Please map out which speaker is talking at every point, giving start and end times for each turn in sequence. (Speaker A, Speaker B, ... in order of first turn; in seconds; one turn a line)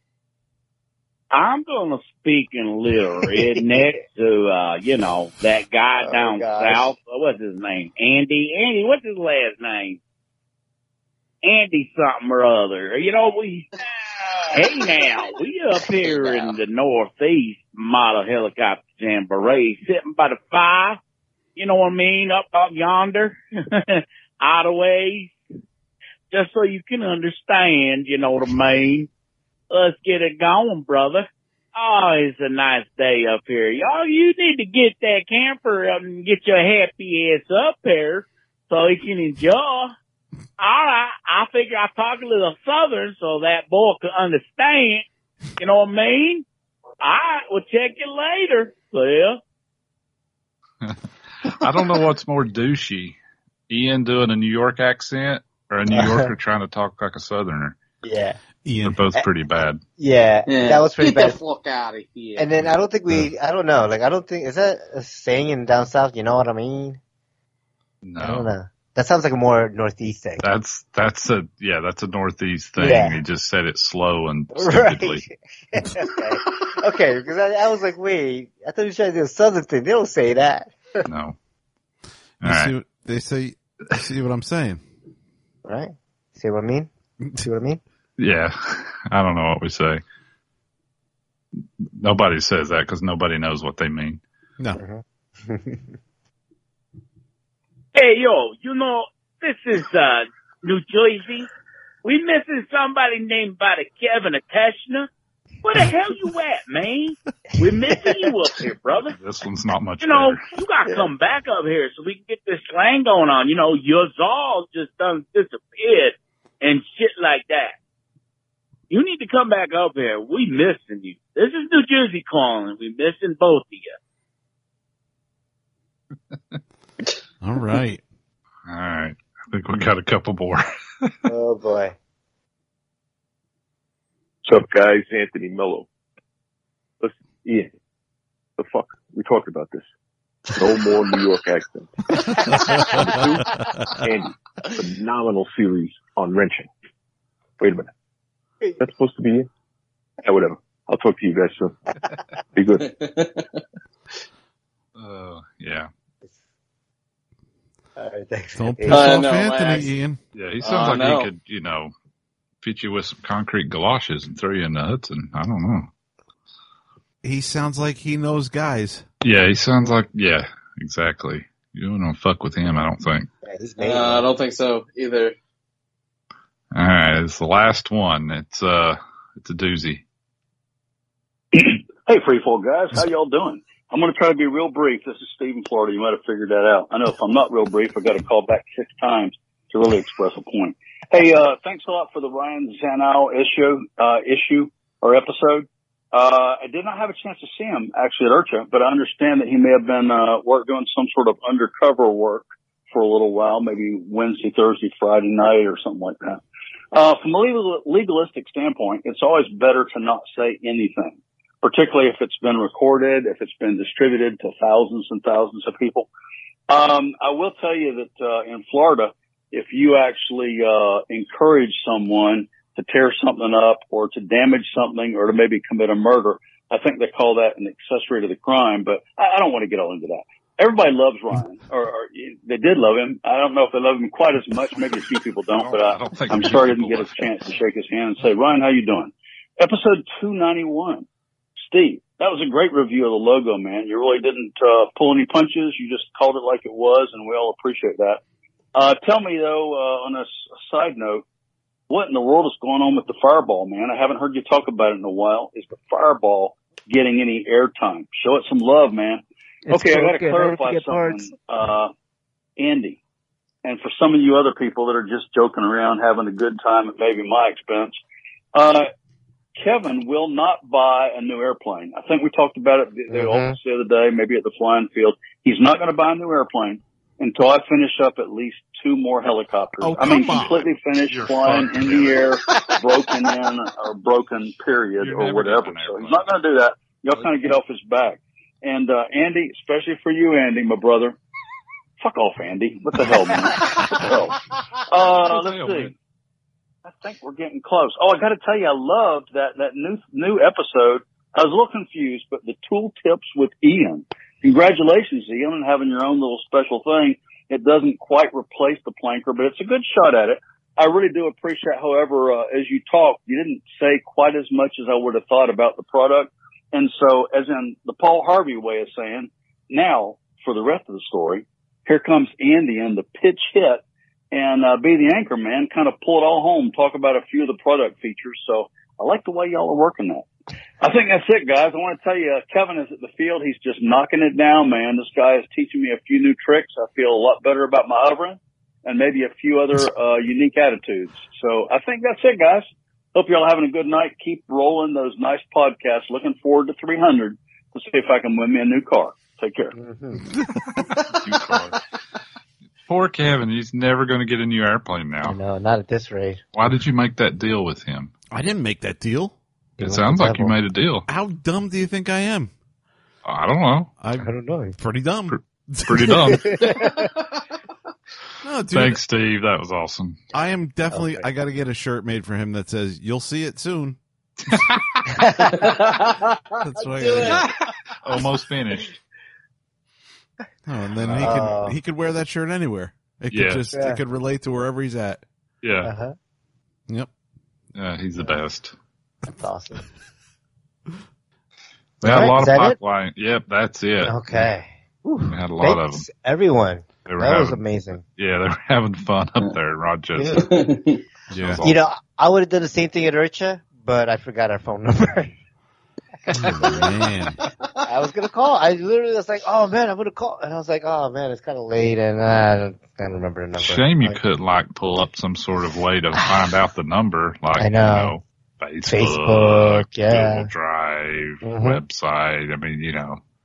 Speaker A: 1.3-10.0
Speaker B: 3.3-3.6
Speaker B: 6.0-6.9
Speaker A: 11.4-13.7
Speaker C: 14.4-15.0
Speaker A: 14.5-21.0
Speaker C: 16.0-16.6
Speaker A: 21.6-25.3
Speaker A: 26.3-29.1
Speaker A: 29.7-39.9
Speaker A: 40.6-45.0
Speaker A: 45.6-46.5
Speaker A: 47.0-49.4
Speaker D: 50.8-53.2
Speaker D: 53.7-57.8
Speaker B: 55.9-56.3
Speaker B: 58.0-58.4
Speaker E: 58.6-59.0
Speaker D: 58.8-59.8
Speaker B: 60.0-61.4
Speaker C: 60.5-62.7
Speaker B: 62.4-67.0
Speaker D: 68.0-68.5
Speaker B: 68.2-70.5
Speaker D: 70.4-75.2
Speaker B: 72.8-73.2
Speaker B: 74.5-80.8
Speaker D: 81.0-81.4
Speaker D: 82.4-82.7
Speaker E: 82.4-84.8
Speaker B: 85.7-87.8
Speaker D: 88.2-90.0
Speaker D: 92.0-94.2
Speaker B: 94.8-95.9
Speaker A: 98.0-101.5
Speaker A: 102.0-105.1
Speaker A: 105.6-109.2
Speaker D: 109.2-110.4
Speaker A: 110.0-117.8
Speaker A: 118.9-124.0
Speaker E: 127.4-128.0
Speaker D: 128.7-131.1
Speaker B: 131.3-132.0
Speaker F: 134.5-135.9
Speaker F: 137.0-137.7
Speaker F: 138.6-139.9
Speaker F: 140.5-146.7
Speaker E: 142.5-143.2
Speaker F: 147.6-147.9
Speaker F: 148.8-149.5
Speaker F: 150.2-151.8
Speaker F: 152.5-152.9
Speaker C: 152.8-153.5
Speaker D: 155.0-155.9
Speaker B: 158.0-159.1
Speaker E: 158.6-160.2
Speaker C: 158.9-159.9
Speaker D: 160.3-161.9
Speaker C: 160.6-161.3
Speaker D: 162.6-165.9
Speaker E: 167.2-169.1
Speaker D: 169.2-173.3
Speaker B: 173.4-174.3
Speaker C: 173.8-175.4
Speaker D: 176.7-180.0
Speaker G: 181.5-206.4
Speaker G: 206.9-216.1
Speaker G: 216.7-241.1
Speaker D: 235.6-237.3
Speaker G: 241.7-248.2
Speaker G: 248.8-251.2
Speaker G: 251.9-261.9
Speaker B: 259.7-261.3
Speaker G: 262.6-263.0
Speaker G: 263.6-268.0
Speaker G: 268.5-268.9
Speaker G: 269.6-291.2
Speaker B: 273.1-273.6
Speaker E: 279.8-280.5
Speaker D: 280.0-282.4
Speaker D: 285.0-286.3
Speaker G: 292.0-295.9
Speaker D: 295.2-295.9
Speaker G: 296.9-330.3
Speaker G: 330.8-349.7
Speaker B: 349.7-350.2
Speaker E: 350.4-350.6
Speaker D: 350.9-351.8
Speaker D: 352.9-355.4
Speaker B: 355.2-356.5
Speaker D: 356.6-358.1
Speaker E: 358.3-359.4
Speaker B: 359.8-360.5
Speaker D: 359.8-361.1
Speaker E: 361.1-362.5
Speaker D: 363.2-363.9
Speaker E: 364.0-366.2
Speaker B: 364.2-364.8
Speaker D: 365.3-366.8
Speaker B: 366.3-367.1
Speaker C: 366.7-367.2
Speaker E: 368.4-369.0
Speaker D: 368.7-370.2
Speaker E: 370.3-374.0
Speaker B: 370.9-371.3
Speaker D: 374.5-375.2
Speaker B: 375.2-375.5
Speaker C: 375.5-376.4
Speaker E: 376.6-377.4
Speaker C: 376.9-377.5
Speaker D: 378.0-379.0
Speaker E: 380.7-385.2
Speaker D: 381.0-381.4
Speaker B: 381.2-381.8
Speaker D: 383.3-383.7
Speaker B: 383.7-384.0
Speaker D: 385.6-385.9
Speaker B: 385.8-386.1
Speaker D: 387.8-388.7
Speaker B: 389.3-389.9
Speaker B: 392.0-392.8
Speaker D: 392.0-394.5
Speaker B: 394.0-398.0
Speaker D: 395.3-396.1
Speaker D: 397.1-397.6
Speaker D: 398.2-400.5
Speaker C: 400.2-401.0
Speaker E: 401.3-401.6
Speaker D: 401.3-401.8
Speaker B: 401.6-405.4
Speaker E: 406.4-407.4
Speaker B: 407.8-414.2
Speaker D: 413.6-423.2
Speaker B: 417.6-418.1
Speaker B: 418.9-420.5
Speaker B: 421.4-421.8